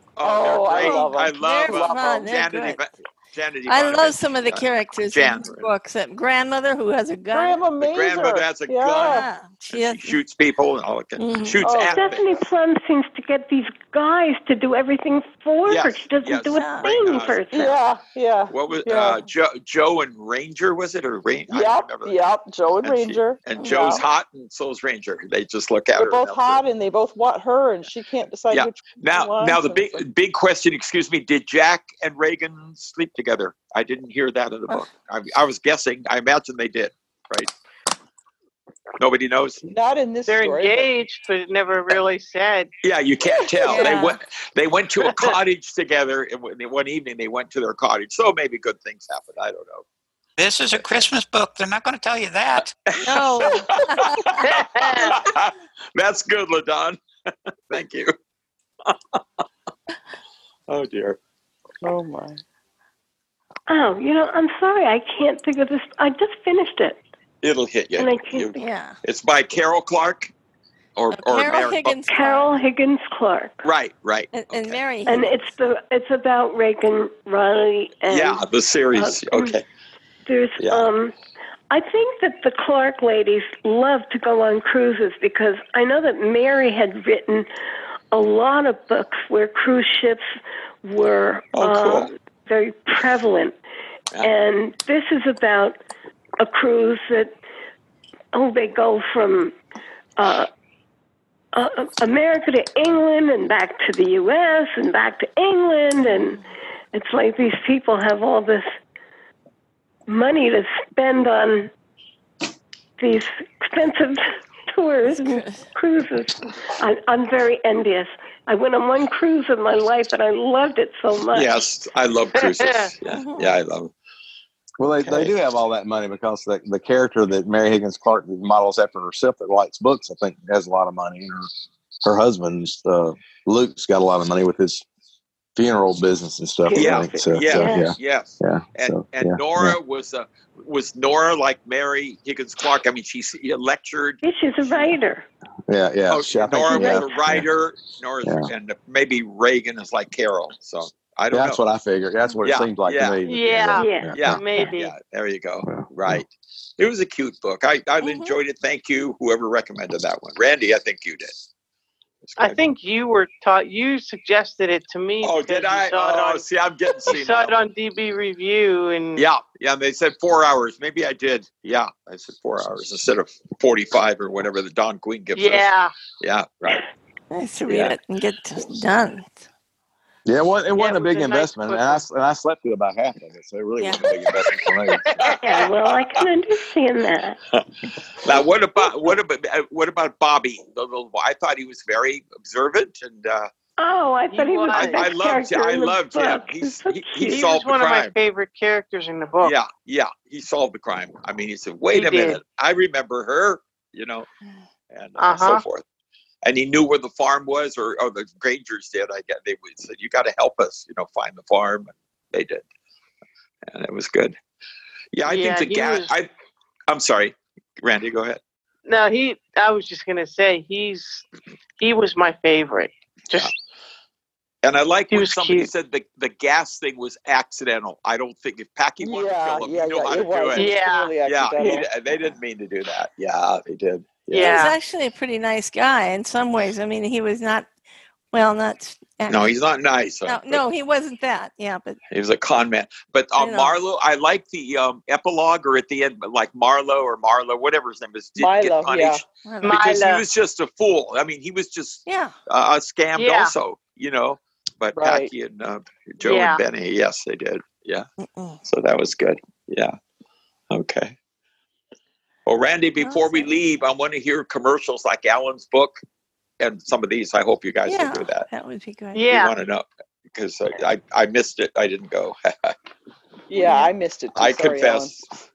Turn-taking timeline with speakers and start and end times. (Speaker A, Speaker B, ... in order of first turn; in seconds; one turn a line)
Speaker A: 0.2-5.7
Speaker B: 0.2-2.2
Speaker C: 0.8-2.8
Speaker D: 0.8-1.1
Speaker C: 3.7-7.6
Speaker B: 7.3-9.3
Speaker A: 7.8-12.4
Speaker C: 8.9-10.2
Speaker C: 11.2-11.7
Speaker B: 11.6-12.2
Speaker D: 11.9-17.8
Speaker A: 15.7-17.7
Speaker C: 16.5-16.9
Speaker B: 17.5-19.2
Speaker A: 18.5-26.6
Speaker B: 21.5-24.0
Speaker C: 23.6-24.1
Speaker B: 25.9-30.0
Speaker A: 28.5-37.5
Speaker A: 39.0-39.6
Speaker B: 39.6-40.9
Speaker E: 40.2-42.7
Speaker A: 42.8-49.9
Speaker B: 43.2-44.1
Speaker C: 43.7-44.2
Speaker E: 45.0-45.4
Speaker F: 50.4-52.8
Speaker A: 52.9-57.0
Speaker C: 53.0-54.4
Speaker E: 54.4-55.2
Speaker A: 57.7-58.1
Speaker A: 58.9-59.2
Speaker A: 60.7-61.2
Speaker B: 61.8-62.4
Speaker D: 63.7-67.0
Speaker A: 67.4-70.3
Speaker D: 68.0-68.6
Speaker C: 68.6-69.0
Speaker A: 71.0-72.0
Speaker C: 71.1-72.5
Speaker D: 72.1-73.7
Speaker A: 73.6-74.8
Speaker C: 74.3-75.3
Speaker D: 75.1-78.4
Speaker A: 78.1-79.6
Speaker D: 78.9-79.6
Speaker D: 80.2-81.1
Speaker A: 80.6-80.9
Speaker D: 81.7-87.5
Speaker D: 88.1-90.3
Speaker D: 90.8-93.6
Speaker A: 91.5-92.1
Speaker D: 94.2-95.8
Speaker D: 96.4-97.3
Speaker D: 98.3-99.6
Speaker D: 100.2-100.5
Speaker D: 101.5-106.4
Speaker D: 106.9-108.8
Speaker D: 110.1-111.7
Speaker D: 113.0-121.5
Speaker C: 115.2-115.6
Speaker A: 121.3-123.9
Speaker E: 122.4-122.9
Speaker C: 123.0-123.6
Speaker G: 124.8-131.5
Speaker A: 125.0-125.3
Speaker G: 132.0-134.8
Speaker G: 135.6-139.8
Speaker D: 136.7-137.9
Speaker A: 136.8-144.2
Speaker D: 144.2-145.3
Speaker G: 145.7-147.5
Speaker A: 146.1-151.6
Speaker D: 146.7-147.2
Speaker G: 148.2-148.5
Speaker G: 151.3-154.4
Speaker A: 152.4-153.2
Speaker E: 153.2-154.9
Speaker D: 153.8-154.6
Speaker A: 154.2-161.3
Speaker G: 155.6-156.2
Speaker C: 158.0-158.4
Speaker A: 162.2-162.7
Speaker E: 162.4-166.4
Speaker A: 165.2-167.5
Speaker E: 167.1-169.2
Speaker A: 169.2-176.8
Speaker E: 175.3-175.9
Speaker C: 177.3-179.4
Speaker A: 177.7-178.0
Speaker G: 180.2-185.1
Speaker E: 180.7-182.0
Speaker C: 183.8-184.1
Speaker E: 184.9-185.7
Speaker A: 185.2-186.3
Speaker D: 185.4-187.4
Speaker A: 188.2-193.5
Speaker D: 193.8-197.4
Speaker E: 194.3-195.1
Speaker A: 194.7-198.2
Speaker E: 197.2-199.6
Speaker A: 199.4-204.3
Speaker E: 201.9-202.4
Speaker A: 204.9-205.8
Speaker E: 205.2-205.7
Speaker A: 206.4-212.6
Speaker A: 213.7-214.4
Speaker A: 215.1-216.3
Speaker E: 215.2-216.2
Speaker A: 216.9-218.4
Speaker E: 218.9-221.2
Speaker E: 221.8-223.5
Speaker A: 224.6-234.7
Speaker E: 225.1-225.7
Speaker B: 229.0-232.0
Speaker E: 230.6-231.2
Speaker D: 231.6-231.8
Speaker E: 234.3-234.8
Speaker C: 234.3-237.7
Speaker C: 238.3-239.6
Speaker A: 239.3-240.6
Speaker C: 240.2-242.0
Speaker A: 242.1-258.1
Speaker C: 243.4-243.8
Speaker B: 248.4-249.2
Speaker C: 249.4-249.8
Speaker E: 249.6-250.2
Speaker C: 252.1-252.3
Speaker E: 253.2-253.5
Speaker B: 254.9-255.3
Speaker E: 256.2-256.6
Speaker C: 258.2-258.6
Speaker A: 258.6-260.0
Speaker A: 260.7-261.2
Speaker A: 262.5-266.0
Speaker C: 263.0-263.6
Speaker A: 266.6-268.5
Speaker C: 267.9-269.2
Speaker E: 269.1-269.5
Speaker A: 269.3-272.8
Speaker B: 273.5-275.1
Speaker C: 273.6-273.9
Speaker A: 274.4-275.4